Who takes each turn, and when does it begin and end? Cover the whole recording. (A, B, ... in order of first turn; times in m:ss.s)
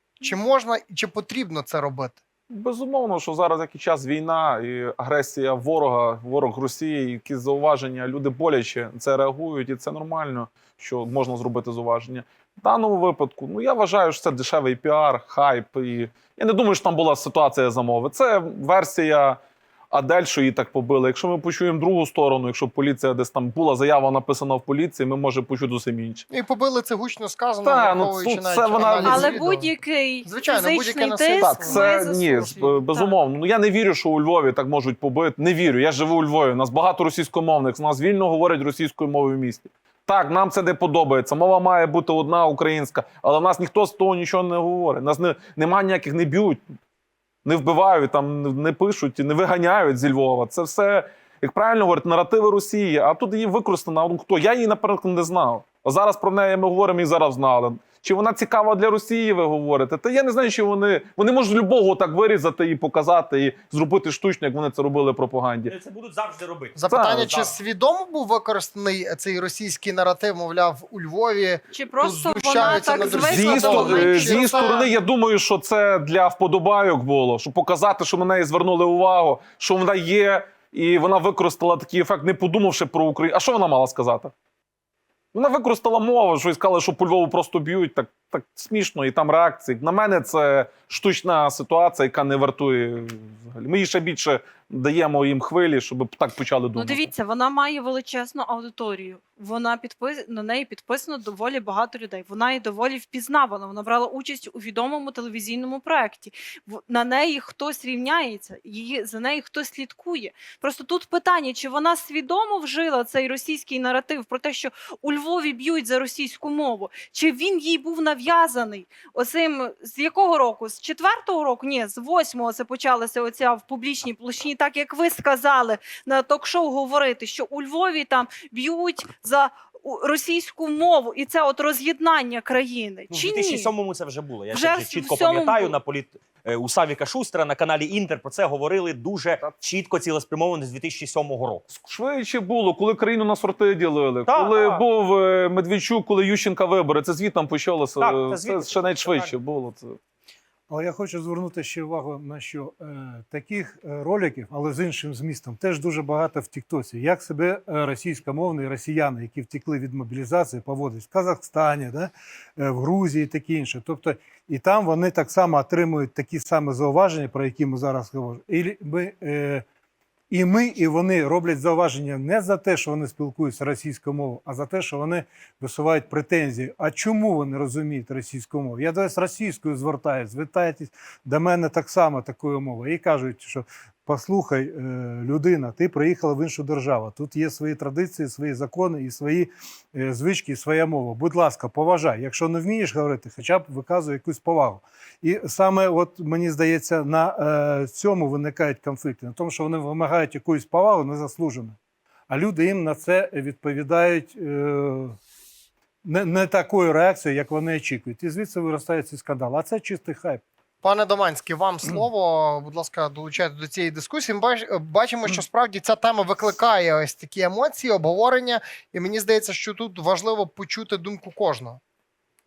0:00.2-0:02.2 A
0:02.5-0:19.4 B
0:19.9-0:26.2 B
0:26.3-0:29.7 A
0:27.6-0:29.2 B
0:29.0-0:33.2 C
0:30.2-0:32.6 A
0:31.3-0:46.6 B
0:47.4-1:05.7 B
1:05.7-1:06.6 D
1:06.8-1:14.9 A
1:06.8-1:07.3 B
1:11.7-1:14.5 C
1:13.2-1:24.3 B
1:25.3-1:37.1 B
1:36.7-2:13.7 C
2:13.3-2:21.6 D
2:14.5-2:15.8 C
2:21.7-2:30.0 B
2:24.3-2:24.8 D
2:28.1-2:29.3 D
2:30.7-2:49.6 E
2:50.3-3:21.8 E
3:22.3-3:25.2 E
3:26.0-3:30.4 E
3:30.8-3:41.8 A